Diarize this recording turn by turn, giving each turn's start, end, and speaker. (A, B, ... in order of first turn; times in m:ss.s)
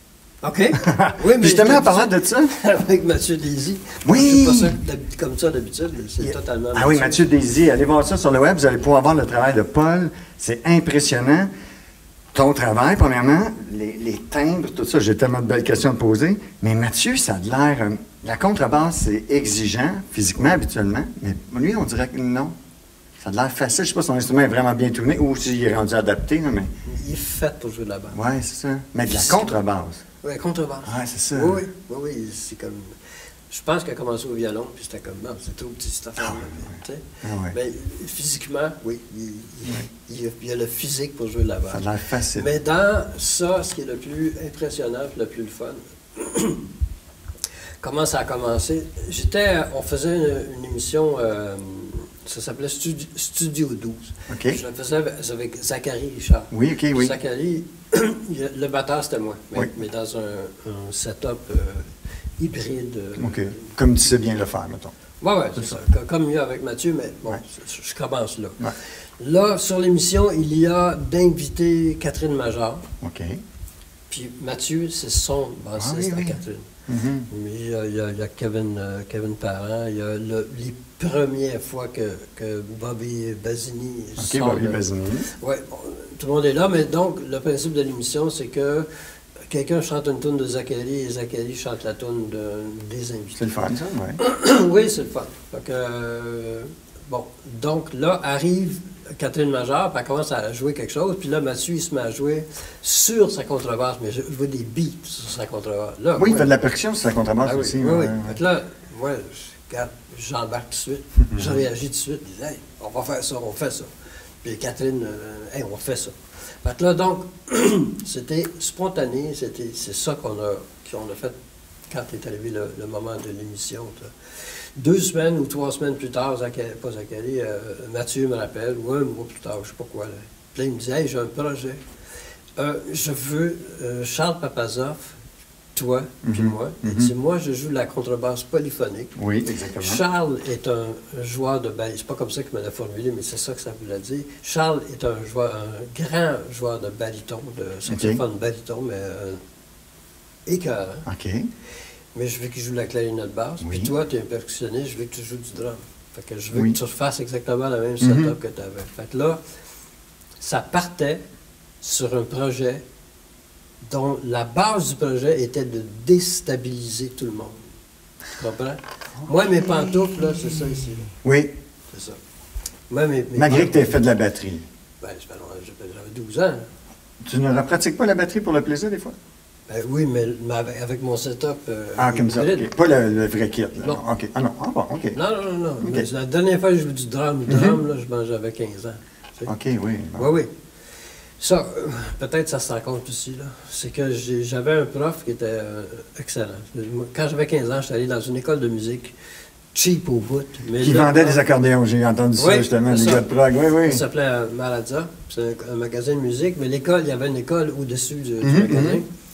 0:00.4-0:07.3 A
0:00.8-0:02.5 B
0:04.0-0:04.8 B
0:06.2-0:11.5 B
0:12.3-0:22.6 B
0:23.2-0:26.7 B
0:26.8-0:28.2 A
0:28.1-0:30.0 B
0:29.1-0:29.6 A
0:30.2-0:33.0 A
0:30.8-0:31.6 B
0:33.5-0:46.6 A
0:36.2-0:37.6 B
0:41.7-0:42.5 B
0:47.8-1:03.8 A
0:54.3-0:54.6 B
0:56.5-0:57.2 B
1:03.2-1:04.9 B
1:05.2-1:12.9 A
1:13.0-1:13.4 B
1:14.1-1:16.7 A
1:15.8-1:17.3 B
1:17.3-1:28.9 A
1:24.2-1:25.3 B
1:29.5-1:33.4 A
1:33.4-1:34.2 B
1:34.2-1:46.6 A
1:46.2-1:48.4 B
1:47.4-1:53.9 A
1:54.4-2:01.4 A
2:01.9-2:11.8 A
2:12.6-2:15.2 A
2:15.8-2:19.2 A
2:16.2-2:17.1 B
2:19.2-2:20.0 B
2:19.8-2:29.4 A
2:27.9-2:28.2 B
2:30.5-2:31.1 A
2:31.1-2:31.5 B
2:32.1-2:39.4 A
2:33.6-2:33.9 B
2:38.0-2:38.3 B
2:40.4-2:41.2 A
2:41.8-2:42.8 A
2:43.8-2:47.6 A
2:48.3-2:51.2 A
2:51.2-2:51.6 B
2:51.9-2:52.2 A
2:52.9-2:54.0 A
2:53.4-2:54.6 B
2:55.0-2:56.7 A
2:57.2-2:59.2 B
2:59.7-3:02.7 A
3:02.0-3:05.2 B
3:05.1-3:09.5 A
3:05.8-3:06.1 B
3:07.5-3:07.8 B
3:09.5-3:10.3 B
3:10.2-3:19.2 A
3:19.7-3:21.5 A
3:20.8-3:24.0 B
3:22.4-3:29.1 A
3:28.4-3:29.0 B